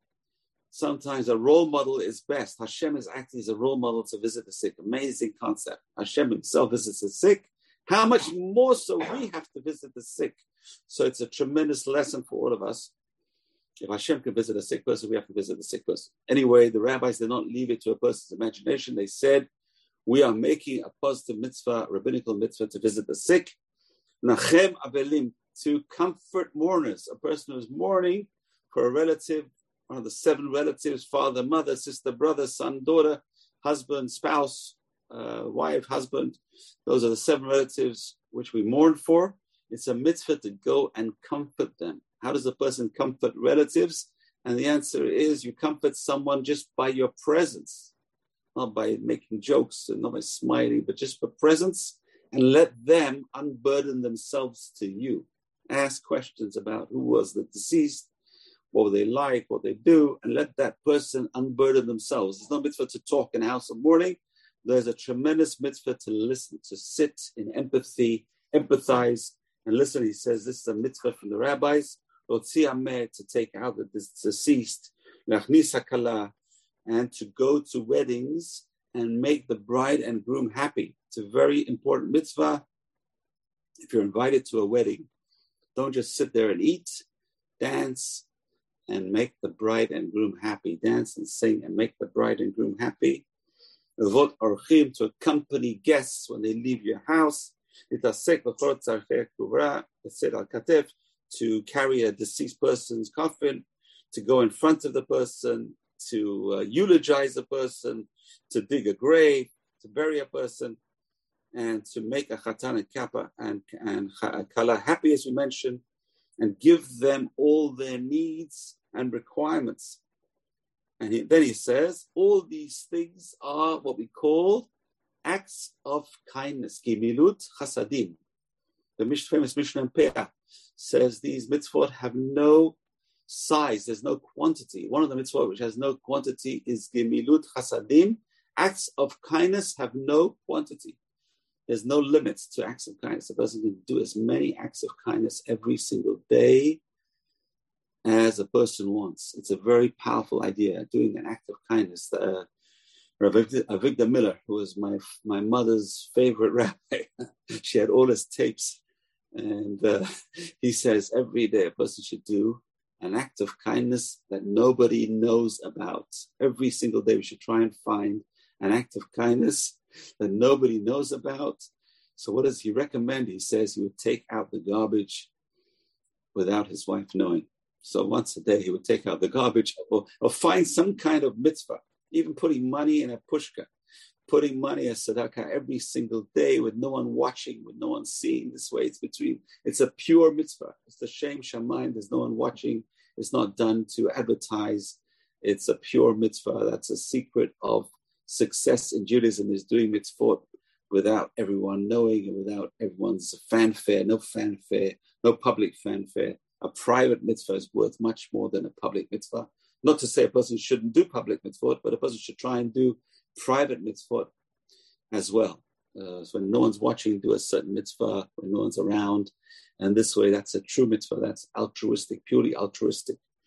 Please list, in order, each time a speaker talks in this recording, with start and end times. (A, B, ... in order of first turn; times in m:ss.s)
0:00.7-0:12.9 A
0:13.8-0:19.5 A
0:20.0-0:23.6 A
0:24.2-0:47.9 A
0:48.5-0:58.1 A
0:58.7-1:16.3 A
1:16.8-1:22.6 A
1:23.8-1:25.1 A
1:25.7-1:27.0 A
1:27.6-1:28.2 A
1:28.9-1:33.2 A
1:34.0-1:50.8 A
1:51.5-1:55.8 A
1:56.4-2:00.0 A
2:01.0-2:04.7 A
2:05.2-2:08.2 A
2:09.0-2:12.8 A
2:13.3-2:21.0 A
2:21.7-2:26.8 A
2:28.0-2:32.5 A
2:33.2-2:38.8 A
2:39.3-2:51.6 A
2:52.2-2:55.3 A
2:56.3-3:03.7 A
3:04.3-3:34.3 A
3:35.1-3:43.2 A